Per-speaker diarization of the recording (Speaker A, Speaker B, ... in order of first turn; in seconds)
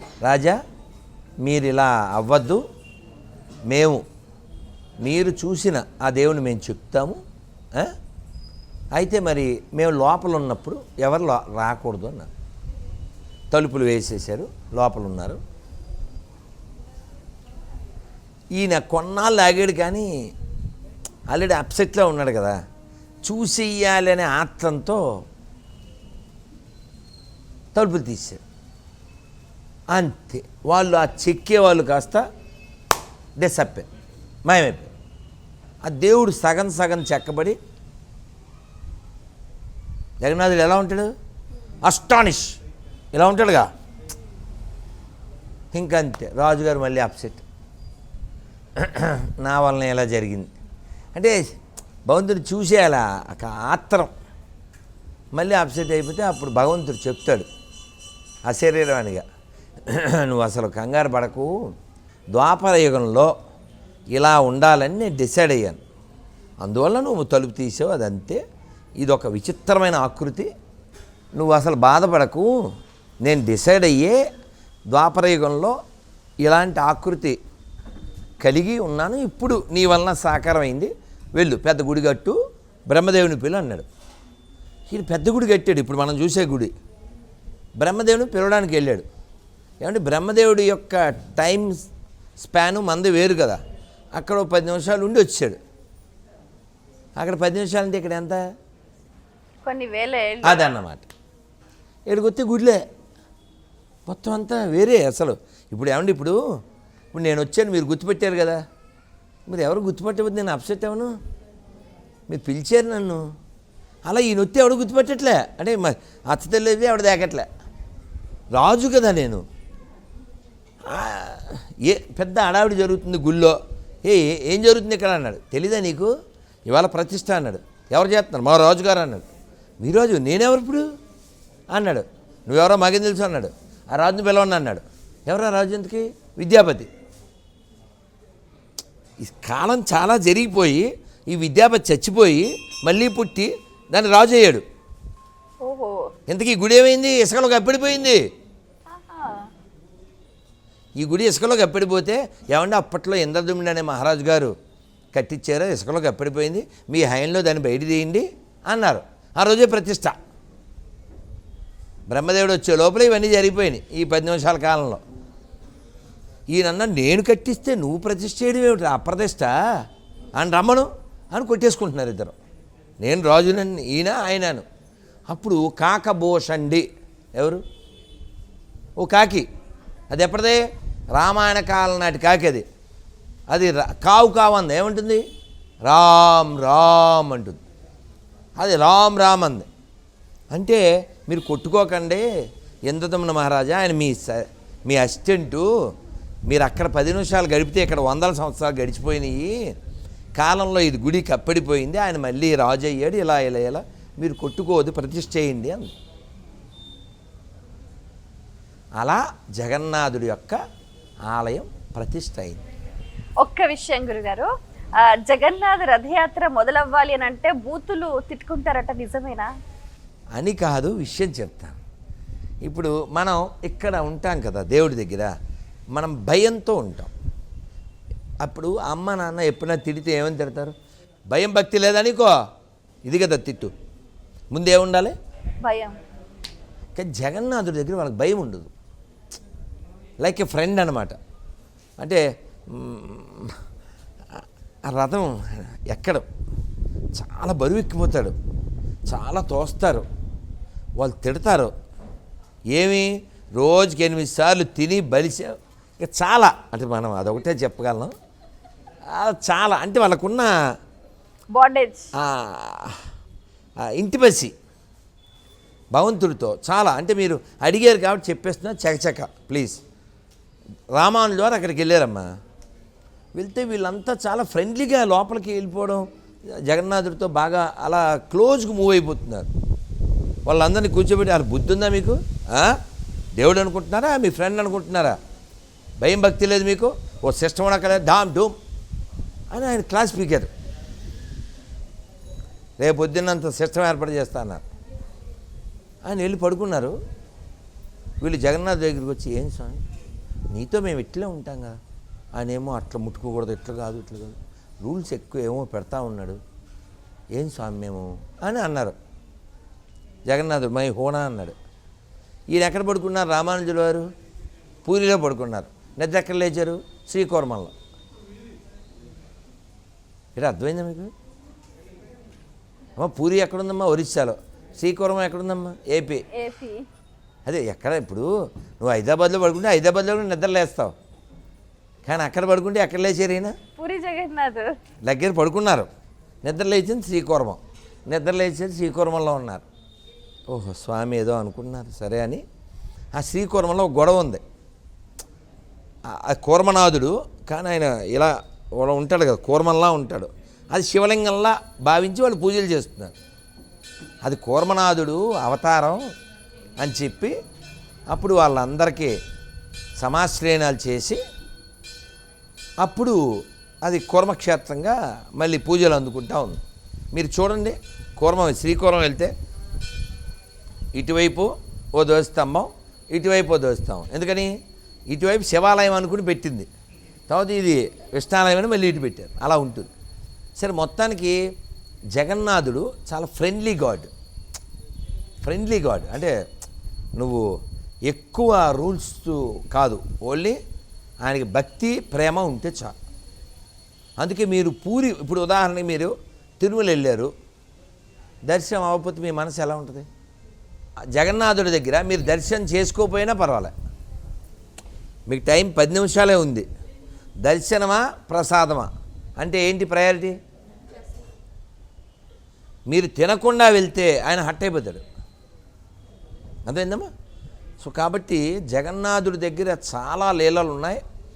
Speaker A: 0.2-0.6, 1.4-2.6, 3.7-4.0, 5.0-7.2, 8.9-12.3, 13.5-15.4, 18.5-20.1, 21.3-22.6, 23.2-25.2, 27.7-28.4, 29.9-32.2, 33.4-33.9, 34.5-34.9, 35.8-37.6, 40.2-41.1, 41.8-42.6, 43.1-43.7, 45.7-47.4, 48.8-50.5, 52.0-54.1, 55.3-57.5, 58.5-59.2, 59.9-61.5, 62.3-63.3, 64.1-65.8, 66.6-68.4, 69.0-70.5, 71.3-72.6, 73.2-74.2, 74.9-75.8, 76.4-77.4, 78.4-83.9, 84.9-86.7, 87.8-89.1, 89.8-91.9, 92.4-93.6, 94.2-95.6, 97.2-98.4, 100.4-101.1, 102.1-102.8, 104.1-106.4, 107.1-108.6, 109.5-111.1, 112.3-113.2, 114.1-117.5, 118.5-119.5, 120.8-126.1, 126.7-129.2, 129.8-130.8, 131.7-136.9, 139.2-144.6, 146.3-148.2, 151.0-154.5, 155.1-160.2, 162.1-165.0, 166.5-169.5, 170.4-172.3, 173.0-174.6, 175.3-176.8, 177.4-177.6, 179.0-179.4, 180.1-180.6, 181.1-182.6, 183.5-185.2, 185.8-187.6, 188.6-189.7, 190.5-192.2, 192.8-195.7, 196.4-199.7, 200.3-205.9, 209.0-210.6, 211.3-212.6, 220.3-221.8, 222.6-225.3, 225.9-227.1, 228.4-230.7, 231.3-232.3, 233.0-233.7, 234.5-235.1, 236.9-238.7, 240.2-241.2, 242.0-243.6, 244.9-246.2, 247.2-248.3, 249.1-250.1, 251.0-251.7, 252.7-258.1, 259.1-260.5, 262.1-263.0, 263.9-264.5, 265.9-269.8, 270.9-272.3, 273.4-279.5, 280.5-282.8, 283.4-285.2, 286.0-288.6, 289.5-290.5, 292.8-294.6, 296.1-296.9, 298.2-299.8, 300.5-301.8, 302.4-306.4, 307.4-308.9, 310.3-311.6, 312.5-314.1, 314.8-317.7, 320.4-321.1, 323.0-326.2, 327.5-330.9, 332.1-333.6, 335.0-335.9, 336.4-339.6, 340.5-342.4, 343.2-344.4, 346.1-353.2, 354.2-356.1, 356.8-357.4, 358.1-359.2, 360.0-361.2, 362.8-363.2, 363.8-366.6, 367.1-369.3, 370.9-374.5, 375.1-376.7, 377.3-379.9, 380.6-381.4, 382.1-384.1, 385.4-386.4, 387.2-387.5, 388.1-390.6, 391.2-392.9, 394.2-397.3, 398.5-400.1, 401.1-403.7, 405.3-406.7, 407.4-410.4, 412.9-415.0, 416.7-417.1, 417.8-421.0
Speaker B: 99.7-100.7, 145.6-146.1, 148.9-149.5, 213.4-219.5, 235.6-235.9, 261.5-262.1, 326.3-326.9, 333.8-334.7